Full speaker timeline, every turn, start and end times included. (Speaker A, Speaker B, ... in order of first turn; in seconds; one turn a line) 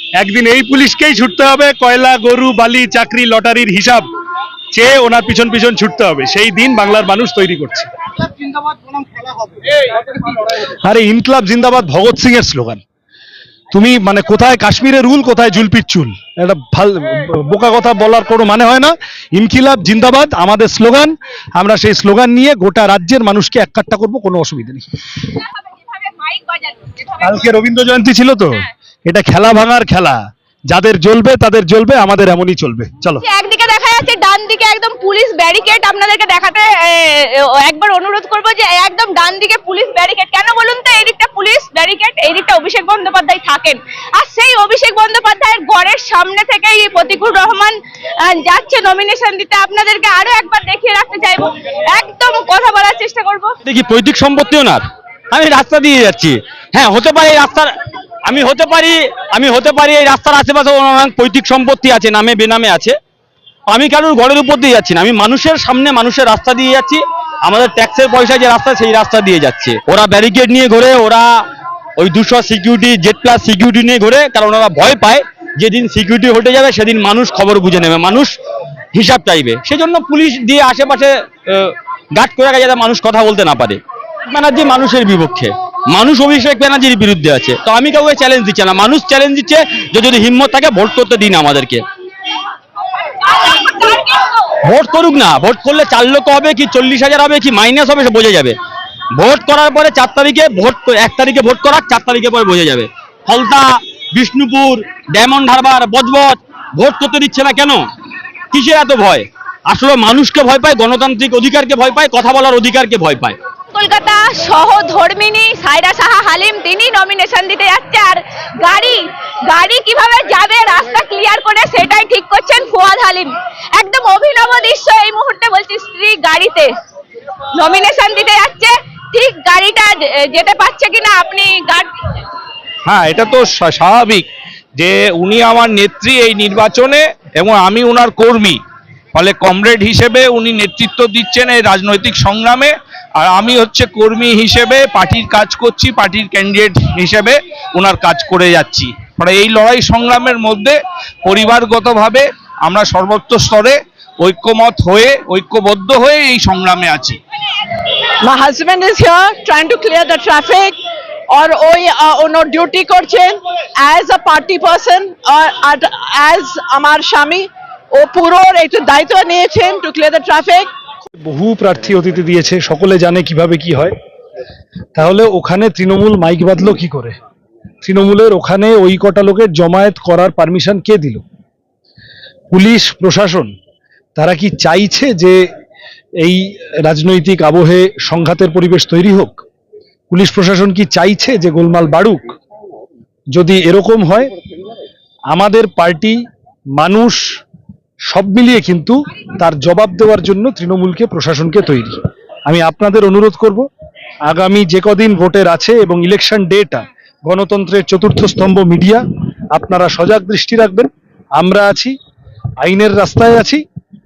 Speaker A: 0.2-4.0
Speaker A: 4.7-7.9
Speaker A: 10.8-12.8
Speaker A: 13.7-24.8
Speaker B: 25.2-27.5
Speaker A: 27.2-30.2
Speaker A: 30.7-33.2
Speaker B: 33.2-53.6
Speaker C: 53.6-57.7
Speaker C: 58.2-62.9
Speaker C: 63.7-71.3
Speaker C: 72.0-78.3
Speaker C: 78.9-91.8
Speaker B: 93.1-94.4
Speaker C: 94.6-98.5
Speaker C: 99.2-107.8
Speaker C: 108.5-113.3
Speaker B: 113.7-126.7
Speaker B: 127.5-132.2
Speaker D: 132.8-138.6
Speaker D: 139.1-157.2
Speaker E: 158.2-160.8
Speaker E: 161.3-170.7
Speaker A: 171.2-173.9
Speaker A: 174.9-177.2
Speaker A: 177.8-181.2
Speaker A: 182.5-183.5
Speaker A: 184.2-185.4
Speaker A: 186.2-189.4
Speaker A: 190.1-192.3
Speaker A: 193.3-194.3
Speaker A: 195.3-196.2
Speaker A: 196.8-197.2
Speaker A: 198.1-202.0
Speaker A: 202.5-203.6
Speaker A: 204.3-209.0
Speaker A: 209.5-211.9
Speaker A: 212.6-213.6